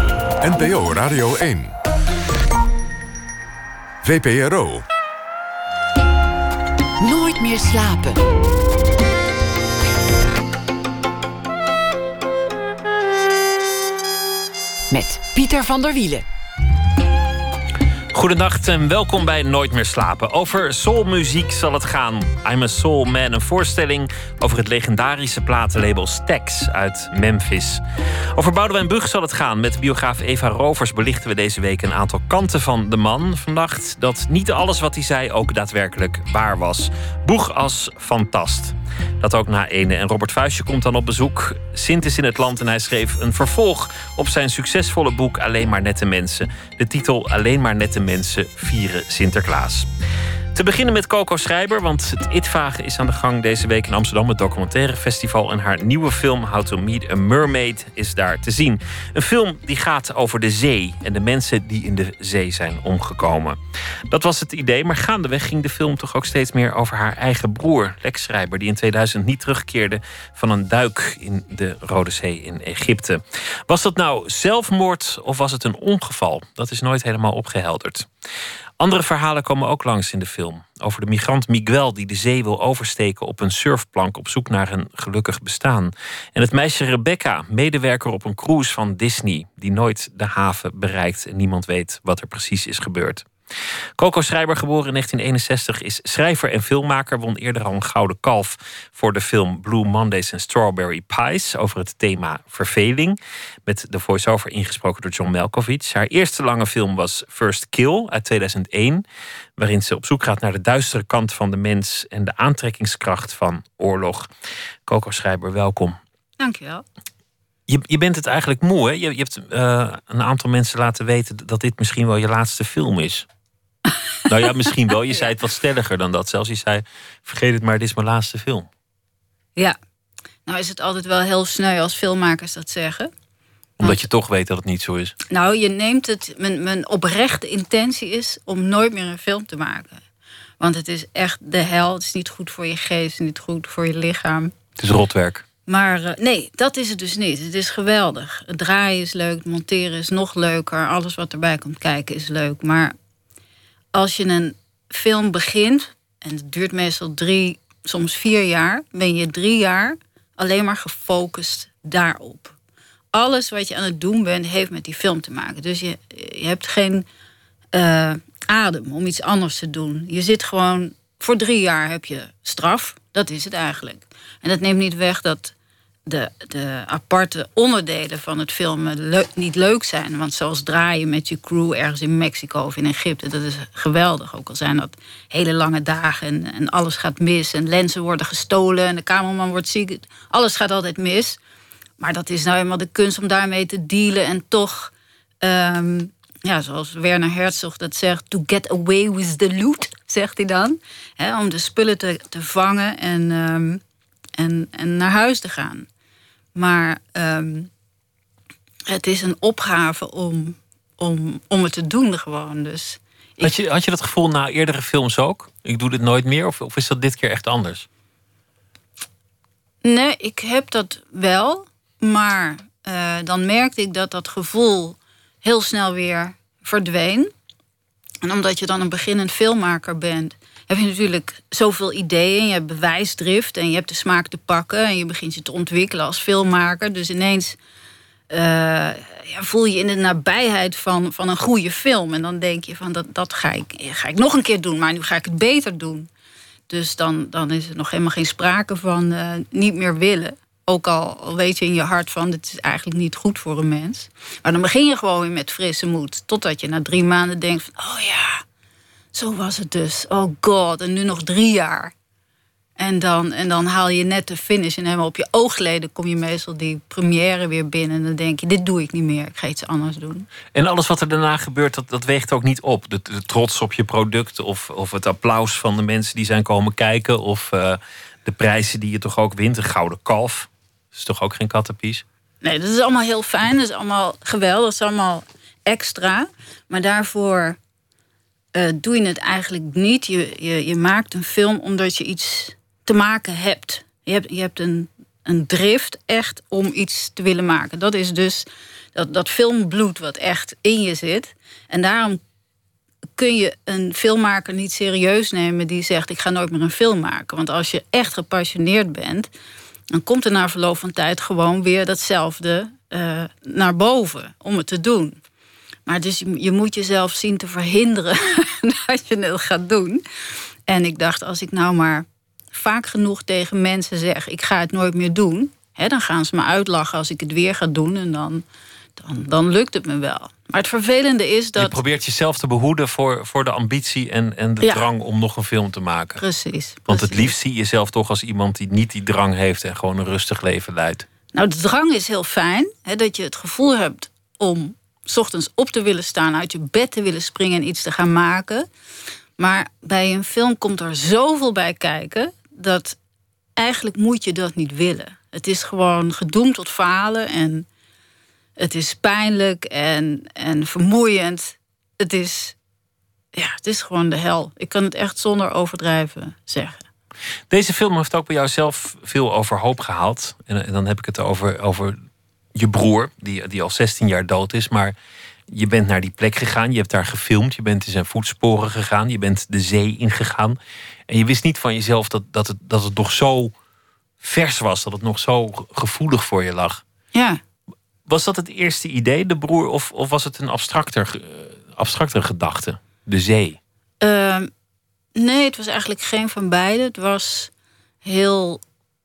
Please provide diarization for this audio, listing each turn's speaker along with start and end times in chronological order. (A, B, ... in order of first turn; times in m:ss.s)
0:00.4-0:01.7 A
0:04.0-0:04.8 A
0:07.0-0:08.2 B
0:14.9-0:16.2 B
0:18.1-0:27.8 C
0:28.4-0:49.9 C
0:50.5-1:03.6 C
1:04.1-1:18.1 C
1:18.8-1:33.3 C
1:34.0-1:49.0 C
1:49.6-1:54.3 C
1:54.8-1:56.0 C
1:56.4-1:56.8 D
1:57.7-2:03.2 C
2:04.3-2:08.7 C
2:10.4-2:13.1 D
2:13.8-2:14.0 D
2:13.8-2:15.1 C
2:15.3-2:20.0 D
2:20.6-2:24.5 D
2:24.8-2:25.4 C
2:25.7-2:32.9 D
2:33.9-2:42.5 D
2:43.1-2:47.0 D
2:47.7-2:55.5 D
2:56.1-3:11.4 D
3:12.0-3:23.8 D
3:24.4-3:25.9 D
3:26.5-3:27.7 D
3:28.9-3:33.6 D
3:33.4-3:37.8 C
3:39.8-3:47.3 D
3:48.2-3:57.6 D
3:58.3-4:06.1 D
4:06.7-4:18.4 D
4:19.1-4:21.9 D
4:22.8-4:30.3 D
4:30.5-4:42.0 C
4:42.4-4:47.6 D
4:48.5-5:02.2 D
5:03.2-5:09.3 D
5:09.9-5:15.2 D
5:15.8-5:20.0 D
5:20.7-5:28.4 D
5:29.0-5:31.8 D
5:31.6-5:36.2 C
5:36.2-5:37.3 D
5:36.9-5:41.0 C
5:41.3-5:48.7 D
5:49.4-5:53.0 D
5:53.6-5:57.7 D
5:58.6-6:02.5 D
6:03.3-6:06.8 D
6:07.5-6:12.0 C
6:12.5-6:15.0 C
6:15.5-6:23.5 C
6:24.2-6:26.8 C
6:27.1-6:27.4 D
6:28.0-6:33.6 C
6:34.0-6:34.5 D
6:35.2-6:37.5 D
6:38.0-6:38.6 D